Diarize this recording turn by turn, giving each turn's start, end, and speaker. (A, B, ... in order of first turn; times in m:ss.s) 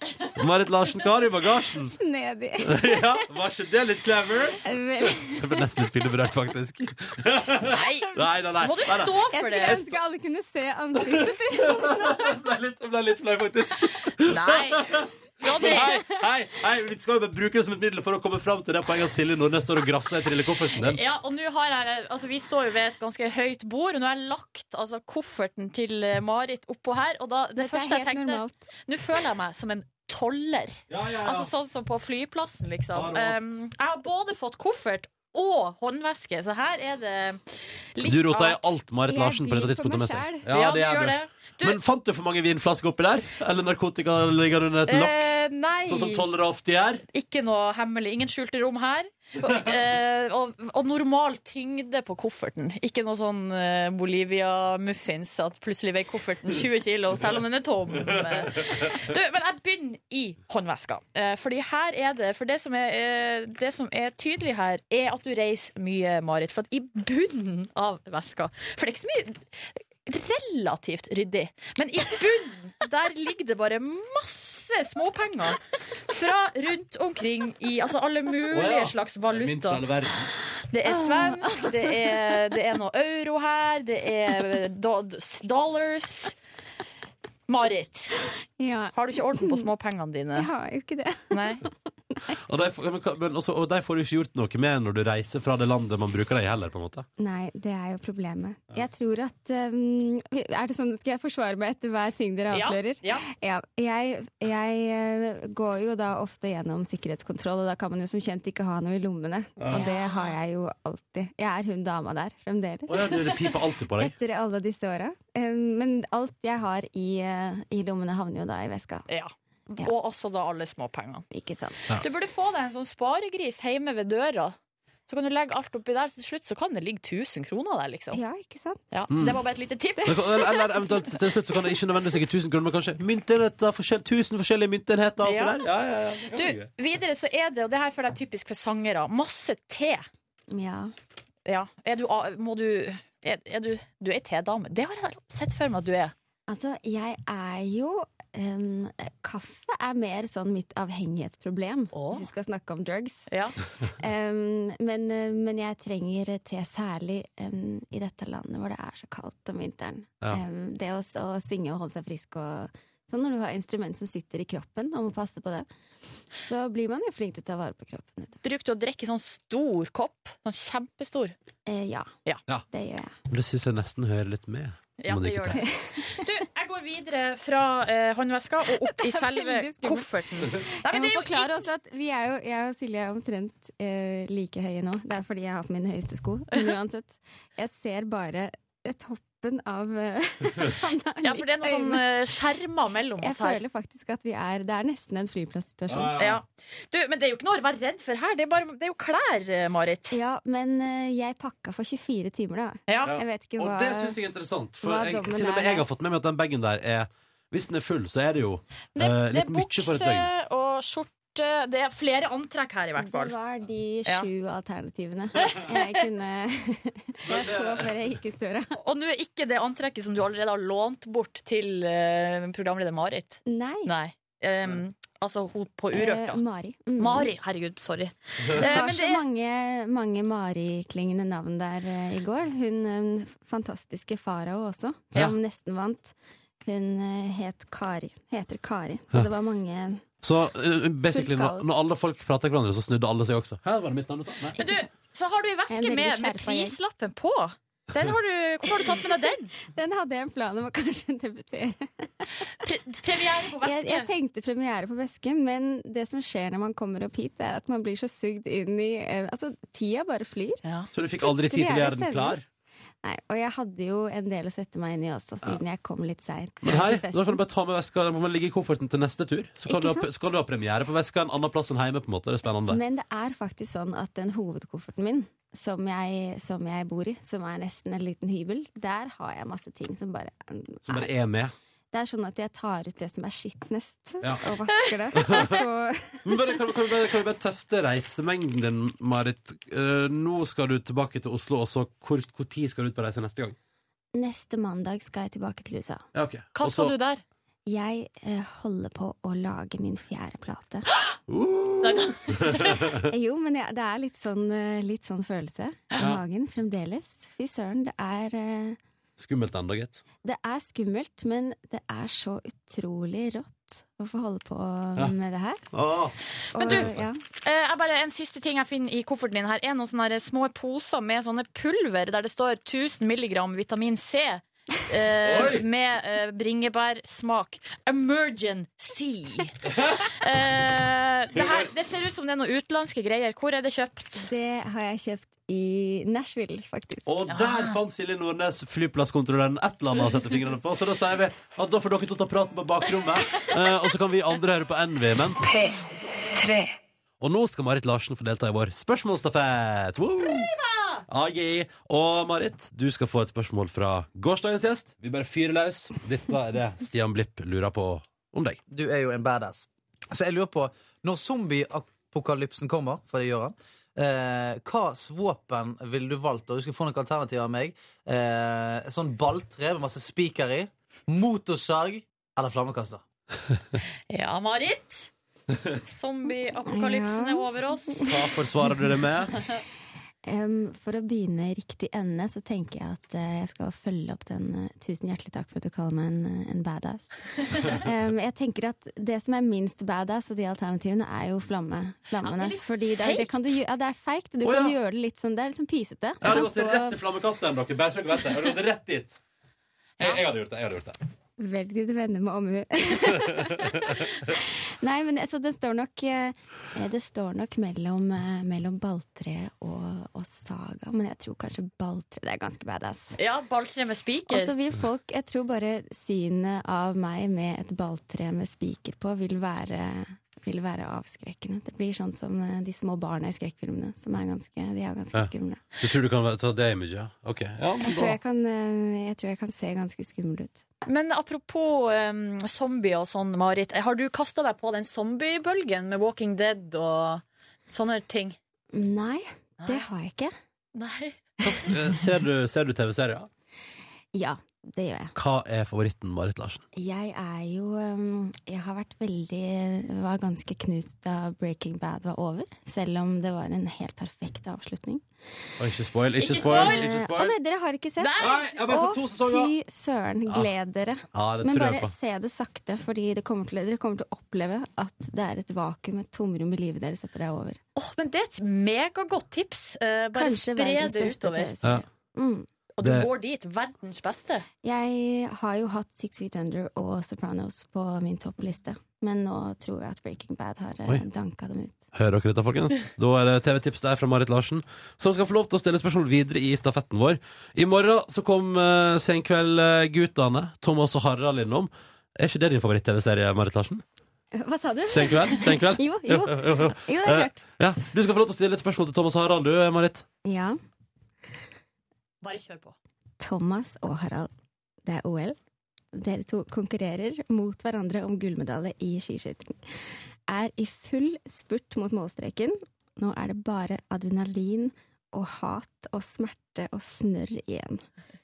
0:00.4-0:01.9 A
0:01.8-0:03.2 B
0:02.6-0:10.0 A
0:04.6-0:05.7 B
0:07.6-0:09.9 C
0:09.3-0:12.3 B
0:11.0-0:21.0 A
0:14.2-0:16.0 C
0:20.8-0:37.4 C
0:27.6-0:28.6 B
0:30.9-0:31.5 A
0:32.9-0:33.4 A
0:37.9-0:38.7 C
0:38.0-0:45.3 A
0:39.0-0:40.5 B
0:40.5-0:41.8 C
0:44.9-0:46.2 C
0:45.9-0:47.0 A
0:47.1-1:19.8 C
0:58.1-0:58.8 A
1:18.5-1:20.3 A
1:20.7-1:26.3 C
1:20.8-1:21.9 B
1:27.5-1:28.1 C
1:28.6-1:29.7 B
1:28.9-1:30.5 C
1:30.4-1:32.4 B
1:31.3-1:31.6 C
1:32.4-1:37.0 A
1:37.2-1:53.3 B
1:42.5-1:43.2 C
1:49.6-1:49.8 A
1:49.7-1:50.3 C
1:52.9-1:54.1 A
1:54.0-1:59.1 B
1:59.1-2:01.2 C
2:01.3-2:01.8 B
2:01.9-2:04.6 C
2:05.1-2:08.2 C
2:08.1-2:08.9 B
2:08.9-2:10.5 C
2:09.1-2:09.4 A
2:10.0-2:11.6 B
2:10.0-2:16.7 A
2:15.2-2:15.6 C
2:16.3-2:20.0 C
2:20.5-2:20.9 B
2:21.4-2:26.1 C
2:26.5-2:33.3 B
2:31.9-2:32.3 C
2:33.3-2:33.6 C
2:34.0-2:45.7 B
2:46.4-2:48.4 B
2:48.4-2:51.3 C
2:51.7-2:52.1 B
2:52.7-2:53.1 B
2:53.3-2:55.6 A
2:55.0-3:01.6 C
2:55.5-2:56.3 B
2:58.8-3:12.0 B
3:11.2-3:13.6 C
3:13.2-3:16.2 B
3:15.9-3:16.4 A
3:16.2-3:20.2 C
3:20.1-3:24.2 B
3:22.9-3:23.2 C
3:23.0-3:30.3 A
3:24.8-3:25.9 B
3:28.9-3:33.3 C
3:33.0-3:38.8 B
3:35.4-3:35.9 C
3:37.2-3:37.9 A
3:38.8-3:46.4 C
3:43.5-3:43.9 B
3:45.9-3:47.3 B
3:47.0-3:49.2 C
3:48.5-4:00.0 B
4:00.2-4:04.6 A
4:01.1-4:01.7 B
4:04.6-4:09.5 C
4:05.7-4:06.8 B
4:09.6-4:12.1 B
4:12.6-4:14.1 C
4:13.6-4:20.6 B
4:20.6-4:20.9 C
4:20.9-4:22.4 A
4:21.2-4:22.4 B
4:23.0-4:27.4 B
4:26.6-4:32.8 A
4:29.6-4:30.1 B
4:32.7-4:41.1 B
4:40.8-4:41.5 A
4:41.9-4:46.4 B
4:44.2-4:44.5 A
4:45.2-4:45.6 A
4:46.2-4:53.6 A
4:54.1-4:56.0 B
4:56.1-4:56.9 A
4:56.5-4:57.2 C
4:57.7-5:00.8 B
5:01.3-5:03.0 A
5:01.8-5:02.8 C
5:02.9-5:08.8 B
5:09.2-5:10.0 A
5:10.2-5:15.6 B
5:15.7-5:17.0 A
5:16.5-5:17.2 B
5:16.5-5:29.5 C
5:25.2-5:25.6 A
5:29.7-5:30.0 A
5:30.1-5:34.2 C
5:31.3-5:31.7 A
5:34.2-5:37.1 B
5:37.0-5:45.4 A
5:37.3-5:37.8 C
5:47.2-5:50.5 A
5:50.3-5:51.0 C
5:51.1-5:58.6 A
5:58.7-6:13.0 D
6:14.1-6:15.1 C
6:15.8-6:18.0 C
6:16.7-6:18.8 B
6:18.0-6:19.4 A
6:20.2-6:27.1 B
6:27.6-6:37.0 B
6:32.2-6:33.5 C
6:34.4-6:34.7 A
6:36.2-6:39.2 A
6:40.0-6:41.0 A
6:41.4-6:53.2 B
6:43.2-6:44.0 A
6:53.2-6:54.5 C
6:54.3-7:05.6 B
7:05.1-7:08.2 A
7:07.8-7:10.6 B
7:10.8-7:18.4 C
7:18.7-7:20.3 B
7:19.6-7:19.9 C
7:20.7-7:21.2 C
7:21.4-7:23.3 A
7:24.1-7:25.1 B
7:25.1-7:26.6 A
7:26.8-7:35.0 B
7:35.6-7:37.3 A
7:36.2-7:36.9 C
7:36.4-7:47.6 B
7:38.0-7:38.6 C
7:38.2-7:39.5 A
7:41.1-7:41.9 A
7:47.8-7:51.5 C
7:50.1-7:52.5 B
7:52.8-7:54.4 C
7:52.8-7:53.1 A
7:54.6-8:01.8 B
8:01.9-8:13.8 A
8:14.4-8:17.4 B
8:14.9-8:20.0 A
8:20.2-8:20.6 B
8:22.2-8:22.8 C
8:23.2-8:24.3 B
8:24.8-8:25.4 B
8:25.9-8:29.6 B
8:30.3-8:37.8 B